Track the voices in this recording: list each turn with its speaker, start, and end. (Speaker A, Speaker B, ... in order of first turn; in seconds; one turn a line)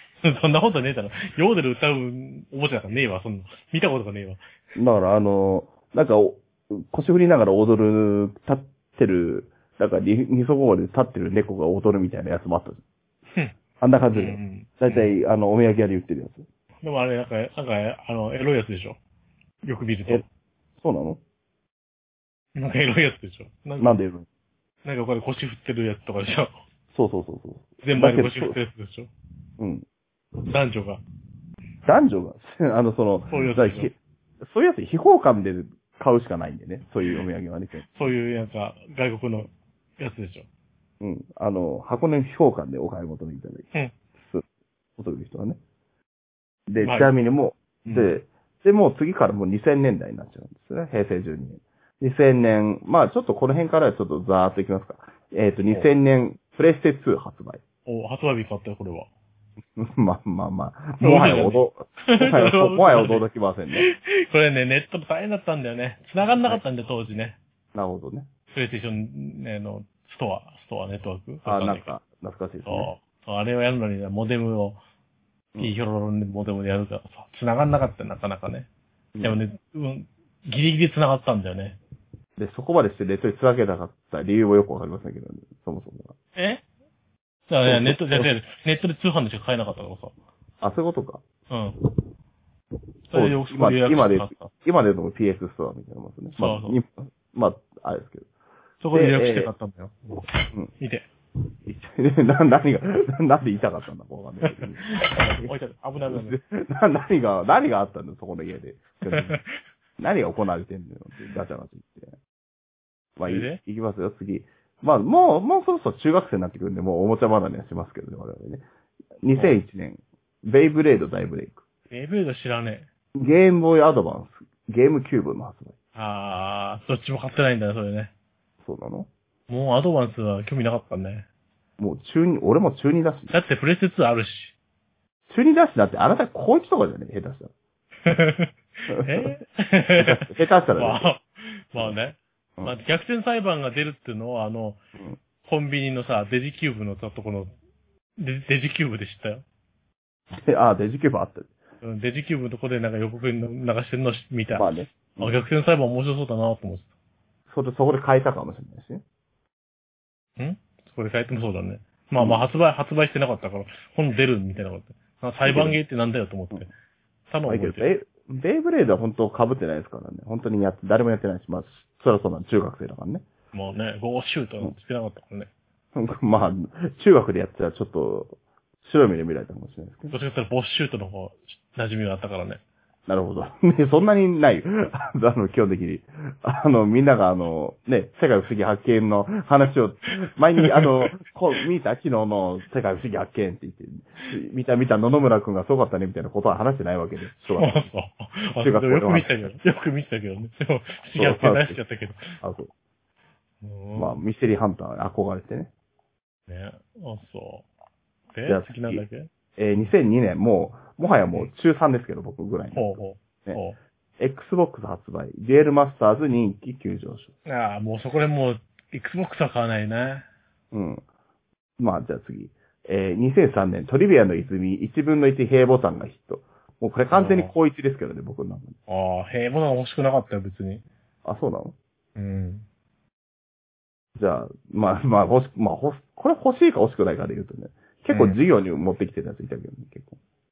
Speaker A: 0.2-4.4
Speaker B: 4.8-12.8
Speaker B: 13.8-16.5
Speaker A: 14.1-15.1
Speaker A: 16.8-19.0
Speaker A: 19.6-20.2
Speaker B: 20.8-21.2
Speaker A: 22.6-24.0
Speaker B: 23.8-24.3
Speaker A: 24.9-26.5
Speaker B: 26.9-28.6
Speaker A: 27.8-29.1
Speaker B: 29.6-29.9
Speaker A: 30.5-31.0
Speaker B: 31.9-37.8
Speaker A: 33.3-33.9
Speaker A: 37.8-40.5
Speaker B: 41.0-43.7
Speaker B: 45.0-45.6
Speaker B: 46.7-57.6
Speaker A: 46.8-47.1
Speaker A: 47.8-48.1
Speaker A: 57.9-59.1
Speaker B: 59.8-63.9
Speaker A: 61.0-67.4
Speaker B: 67.7-68.3
Speaker A: 68.5-71.9
Speaker B: 71.5-72.9
Speaker A: 72.7-74.8
Speaker A: 75.6-78.7
Speaker B: 79.2-79.4
Speaker A: 79.2-81.8
Speaker B: 82.4-86.1
Speaker A: 86.3-86.6
Speaker A: 87.5-90.1
Speaker B: 87.7-88.3
Speaker B: 90.6-91.2
Speaker A: 91.5-91.8
Speaker A: 93.1-94.5
Speaker B: 93.1-98.3
Speaker A: 96.4-96.8
Speaker A: 98.8-101.1
Speaker B: 98.9-99.5
Speaker B: 101.7-105.5
Speaker A: 104.5-106.4
Speaker B: 106.1-109.4
Speaker A: 109.1-109.6
Speaker B: 110.0-112.1
Speaker B: 113.2-118.6
Speaker A: 113.3-113.6
Speaker B: 119.2-121.6
Speaker A: 119.3-119.6
Speaker A: 121.9-122.9
Speaker B: 123.2-125.7
Speaker A: 126.0-128.1
Speaker B: 128.6-129.1
Speaker A: 129.5-131.3
Speaker B: 131.8-133.3
Speaker A: 133.3-134.5
Speaker B: 135.3-137.5
Speaker A: 138.1-144.8
Speaker B: 138.9-139.3
Speaker B: 140.0-141.1
Speaker A: 145.4-147.5
Speaker A: 148.2-149.4
Speaker B: 150.4-151.5
Speaker A: 151.8-156.9
Speaker B: 154.5-155.4
Speaker B: 157.5-159.0
Speaker A: 160.4-166.7
Speaker B: 162.2-162.4
Speaker B: 165.4-165.8
Speaker A: 167.3-167.9
Speaker B: 167.5-173.2
Speaker A: 173.5-175.5
Speaker B: 175.9-180.2
Speaker A: 180.1-182.6
Speaker B: 183.1-197.9
Speaker A: 190.6-191.2
Speaker A: 197.6-202.4
Speaker B: 198.6-199.4
Speaker B: 201.2-201.8
Speaker B: 202.4-202.7
Speaker A: 203.6-204.2
Speaker B: 204.0-205.7
Speaker A: 206.5-207.7
Speaker A: 208.3-209.3
Speaker B: 208.5-209.0
Speaker B: 209.6-213.6
Speaker A: 212.7-213.8
Speaker B: 214.2-217.3
Speaker A: 217.4-220.2
Speaker B: 220.7-221.0
Speaker B: 221.8-228.8
Speaker A: 227.1-227.5
Speaker A: 228.9-230.8
Speaker B: 231.2-231.8
Speaker A: 232.2-232.7
Speaker B: 234.2-240.2
Speaker A: 238.1-238.4